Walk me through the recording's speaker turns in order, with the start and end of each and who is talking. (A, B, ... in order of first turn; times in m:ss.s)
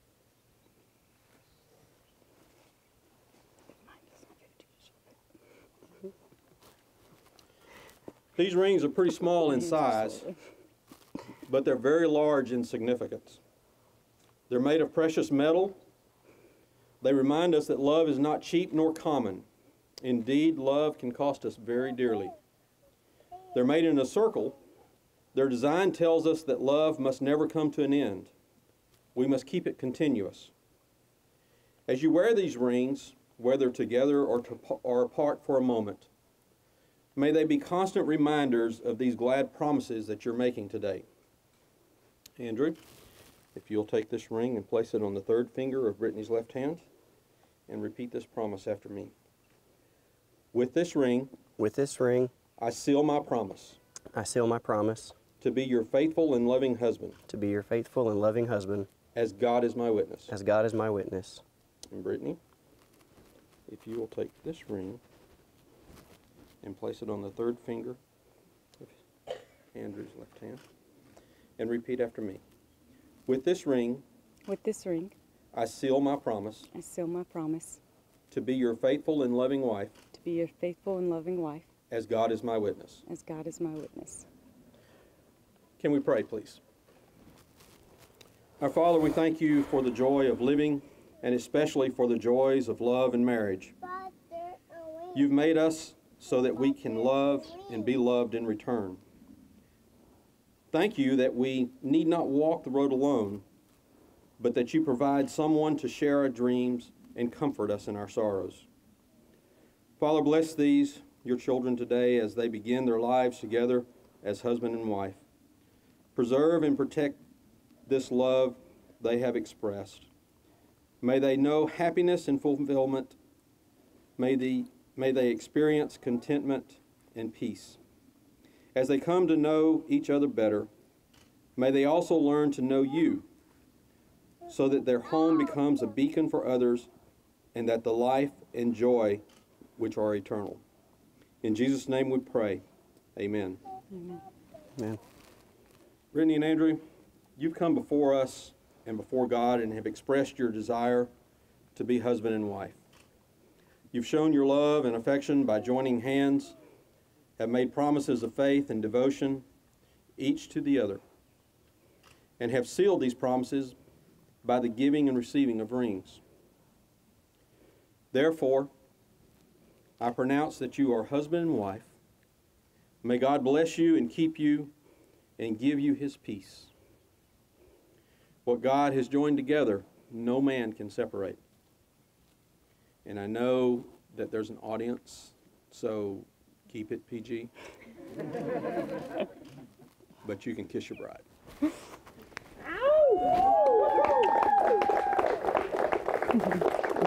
0:03.9-0:04.9 A
0:08.4-0:10.2 B
0:09.4-0:10.3 A
0:11.5-0:13.4 B
0:14.5-0:15.8 B
0:17.0-0:19.4 B
0:20.0-0:22.4 B
0:23.5-0:24.6 B
0:25.3-0:28.3 B
0:29.1-0:30.5 B
0:31.9-0:36.1 B
0:37.2-0:41.0 B
0:42.4-0:42.8 B
0:43.5-0:46.8 B
0:47.7-0:49.1 B
0:50.5-0:51.4 B
0:51.6-0:52.3 C
0:52.6-0:53.8 B
0:54.1-0:55.2 C
0:55.4-0:57.2 B
0:57.3-0:58.9 C
0:59.1-1:00.3 B
1:00.3-1:01.4 C
1:01.9-1:02.4 B
1:03.7-1:05.0 B
1:06.6-1:08.0 B
1:09.7-1:10.6 B
1:11.6-1:12.4 B
1:13.2-1:14.0 B
1:14.5-1:15.1 A
1:15.5-1:16.7 B
1:16.7-1:17.8 A
1:18.3-1:20.0 B
1:20.1-1:21.7 A
1:21.9-1:23.0 B
1:23.1-1:24.2 A
1:25.8-1:26.6 B
1:28.6-1:33.7 B
1:35.1-1:39.0 B
1:40.7-1:43.4 B
1:44.4-1:48.6 B
1:50.0-1:55.2 B
1:56.1-1:57.2 B
1:57.8-2:00.1 B
2:01.0-2:03.2 B
2:04.2-2:07.8 B
2:08.7-2:10.7 B
2:11.6-2:13.2 B
2:14.5-2:16.9 B
2:17.5-2:19.2 B
2:19.8-2:20.6 B
2:21.4-2:22.6 B
2:23.2-2:23.6 B
2:26.1-2:26.8 B
2:27.4-2:31.1 B
2:31.7-2:32.8 B
2:33.9-2:36.6 B
2:37.4-2:39.4 B
2:40.2-2:41.0 B
2:42.4-2:43.8 B
2:44.4-2:46.2 B
2:48.1-2:48.7 B
2:50.0-2:51.9 B
2:53.0-2:54.7 B
2:55.4-2:56.7 B
2:58.4-3:01.4 B
3:03.0-3:07.5 B
3:10.2-3:11.2 B